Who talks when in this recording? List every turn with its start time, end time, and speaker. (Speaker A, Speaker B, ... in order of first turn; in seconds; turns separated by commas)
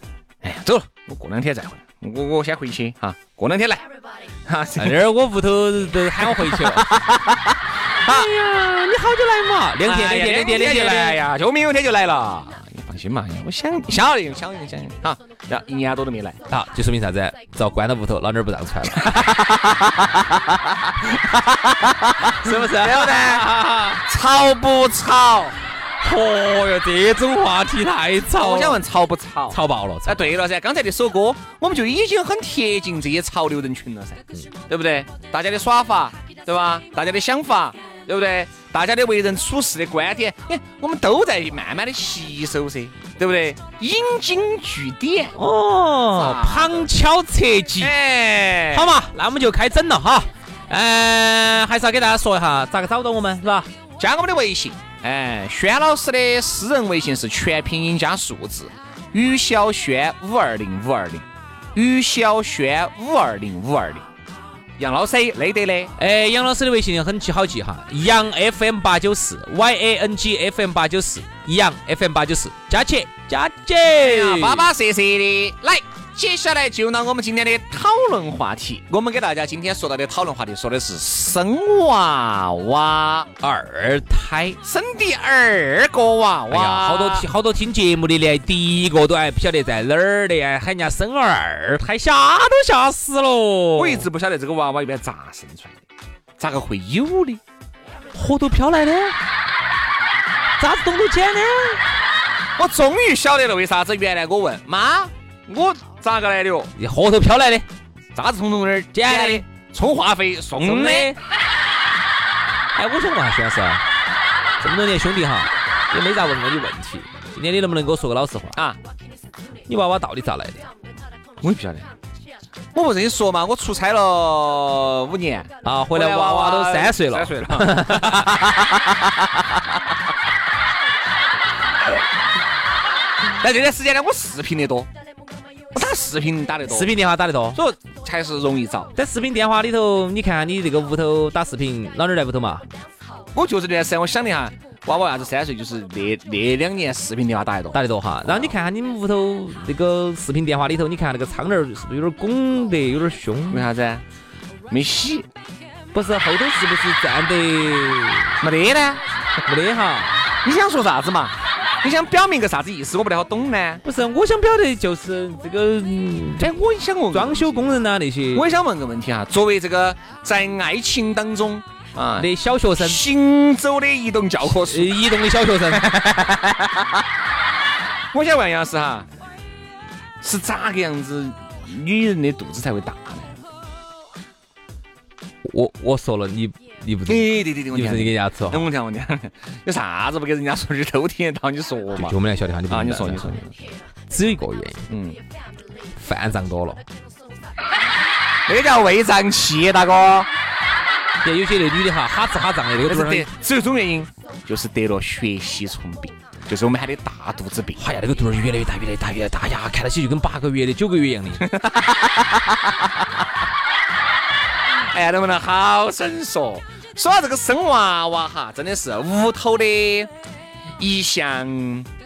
Speaker A: 0.4-3.8, Speaker A: 4.5-5.0, Speaker B: 4.8-6.9, Speaker A: 6.2-7.5, Speaker B: 8.0-11.2, Speaker A: 9.8-16.4, Speaker B: 16.5-19.4, Speaker A: 21.3-21.9, Speaker B: 22.4-24.0, Speaker A: 22.5-25.6, Speaker B: 26.0-28.8, Speaker A: 28.4-45.4, Speaker B: 29.5-30.3, Speaker B: 45.4-47.9, Speaker A: 46.1-46.9, Speaker A: 47.8-48.9, Speaker B: 48.7-53.7, Speaker A: 54.0-64.0, Speaker A: 64.8-65.9, Speaker B: 66.0-74.7, Speaker A: 74.0-83.3, Speaker B: 83.4-84.6, Speaker A: 84.6-87.3, Speaker B: 86.5-94.1, Speaker A: 93.8-95.8, Speaker A: 96.4-97.4, Speaker B: 98.2-99.2, Speaker B: 100.6-101.8, Speaker A: 102.6-106.7, Speaker B: 106.8-107.7, Speaker A: 108.1-111.1, Speaker B: 108.9-109.4, Speaker B: 110.6-111.2, Speaker B: 112.7-113.8, Speaker B: 114.6-118.6, Speaker B: 119.7-120.7, Speaker A: 121.4-121.9, Speaker A: 122.8-128.5, Speaker B: 125.6-128.4, Speaker A: 133.4-134.9, Speaker A: 135.8-136.9, Speaker B: 136.7-137.6, Speaker A: 137.5-138.9, Speaker B: 138.9-142.6, Speaker A: 143.3-148.5, Speaker B: 147.7-153.7, Speaker A: 153.5-154.0, Speaker A: 154.7-155.3, Speaker B: 155.9-158.4, Speaker A: 158.4-159.0, Speaker B: 159.5-160.2, Speaker A: 160.4-163.8, Speaker B: 163.8-166.6, Speaker A: 166.4-167.8, Speaker B: 167.1-168.5, Speaker A: 168.3-175.0, Speaker B: 172.2-173.1, Speaker B: 174.5-175.9, Speaker A: 175.7-177.0, Speaker A: 178.1-179.1, Speaker A: 180.2-183.3, Speaker B: 185.4-188.7, Speaker A: 187.1-192.2, Speaker B: 192.0-193.4, Speaker A: 192.7-193.5, Speaker B: 194.1-194.9, Speaker A: 194.9-195.2, Speaker B: 195.9-196.8, Speaker A: 198.5-200.3, Speaker B: 201.2-203.3, Speaker A: 202.9-207.8, Speaker B: 207.8-211.5, Speaker A: 211.4-212.6, Speaker A: 214.9-220.1, Speaker A: 220.8-221.9